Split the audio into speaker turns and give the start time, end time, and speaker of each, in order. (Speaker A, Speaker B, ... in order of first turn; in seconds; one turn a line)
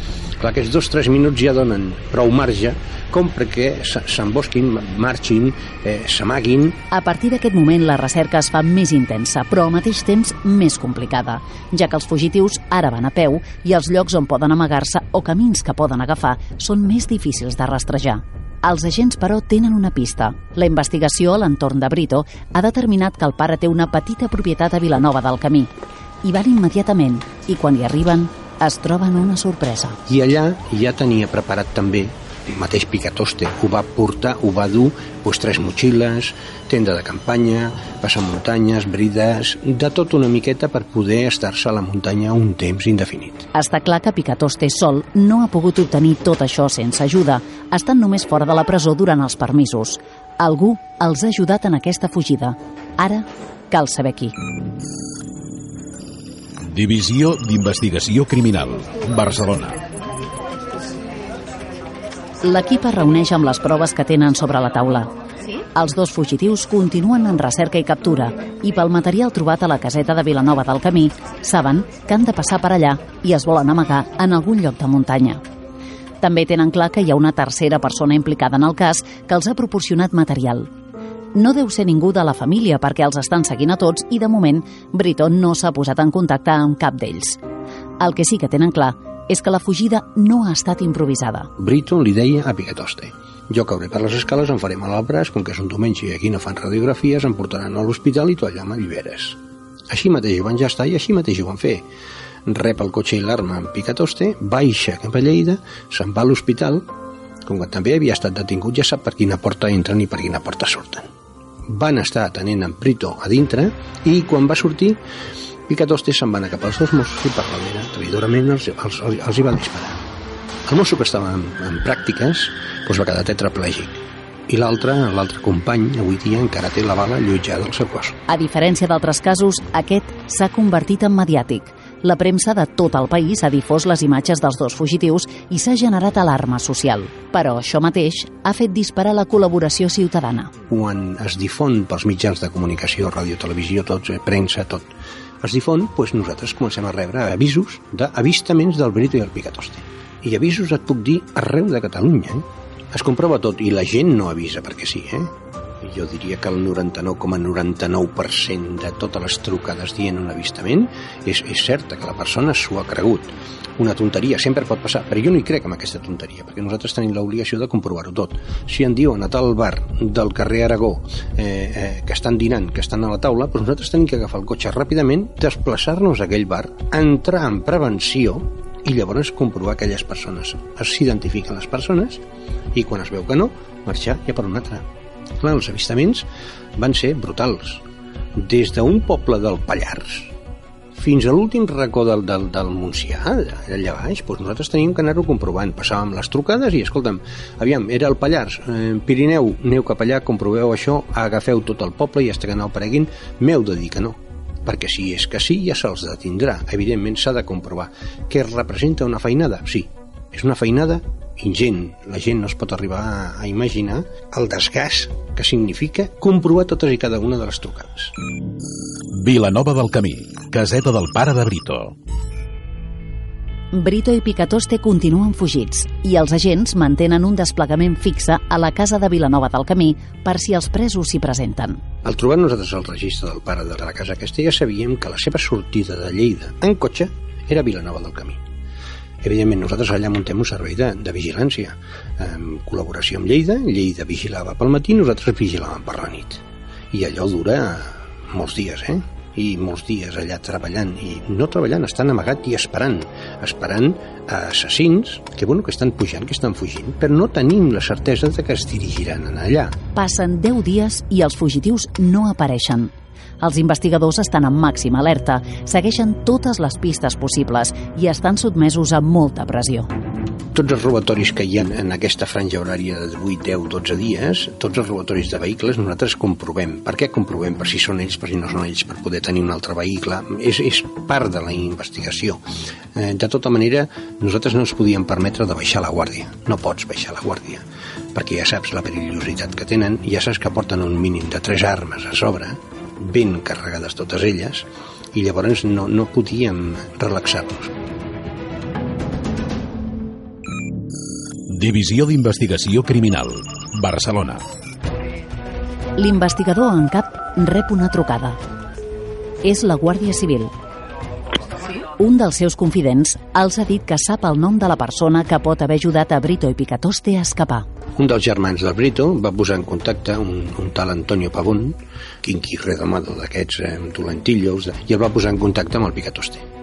Speaker A: 0.4-6.8
Speaker B: 6.9-25.7
Speaker B: 26.2-30.0
Speaker A: 30.1-43.5
Speaker B: 43.5-54.4
Speaker C: 56.6-59.8
Speaker B: 62.4-65.1
Speaker B: 65.7-75.4
Speaker B: 76.2-80.7
Speaker B: 81.3-87.4
Speaker B: 88.0-91.5
Speaker A: 91.6-99.4
Speaker A: 99.9-101.8
Speaker A: 102.5-106.9
Speaker A: 107.5-111.1
Speaker A: 111.7-115.0
Speaker A: 115.7-120.0
Speaker A: 120.7-128.2
Speaker B: 128.3-140.5
Speaker A: 140.7-182.2
Speaker A: 182.7-184.8
Speaker A: 185.4-187.8
Speaker A: 188.3-190.3
Speaker A: 190.9-218.1
Speaker C: 219.1-221.9
Speaker B: 223.7-231.8
Speaker A: 232.0-238.4
Speaker A: 239.2-259.8
Speaker B: 259.9-269.9
Speaker A: 270.5-282.4
Speaker A: 282.9-297.7
Speaker C: 301.5-304.4
Speaker B: 306.0-308.4
Speaker B: 309.4-310.5
Speaker B: 311.9-317.7
Speaker A: 317.9-326.4